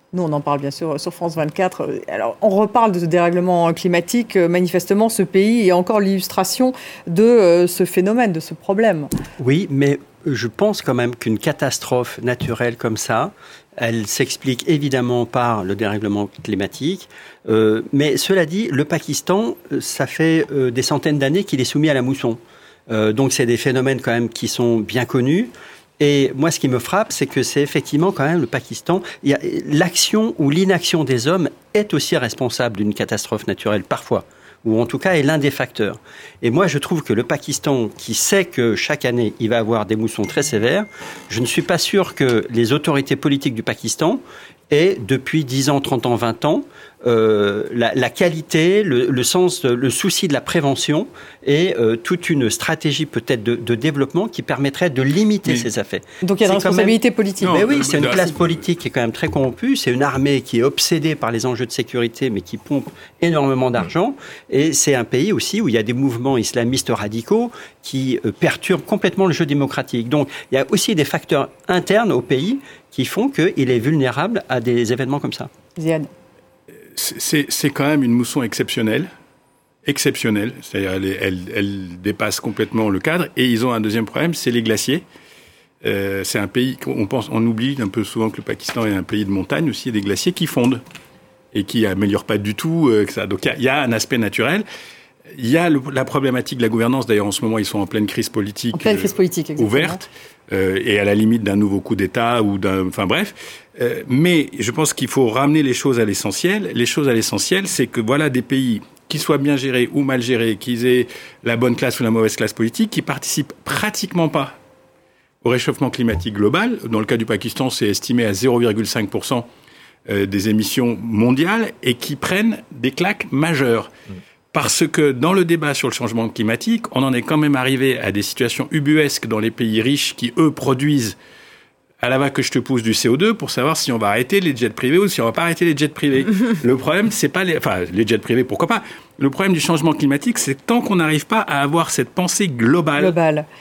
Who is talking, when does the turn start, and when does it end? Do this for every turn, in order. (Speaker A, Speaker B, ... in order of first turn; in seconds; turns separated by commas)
Speaker A: 0.1-9.1, Speaker B: 9.4-75.5, Speaker A: 56.2-57.7, Speaker C: 57.4-58.6, Speaker A: 75.8-76.1, Speaker C: 77.0-79.1, Speaker C: 79.8-85.0, Speaker C: 85.8-90.8, Speaker C: 91.5-94.7, Speaker C: 95.3-114.5, Speaker A: 98.7-100.0, Speaker C: 115.4-119.5, Speaker C: 120.1-123.9, Speaker C: 124.5-131.2, Speaker C: 132.0-143.2, Speaker A: 143.0-143.5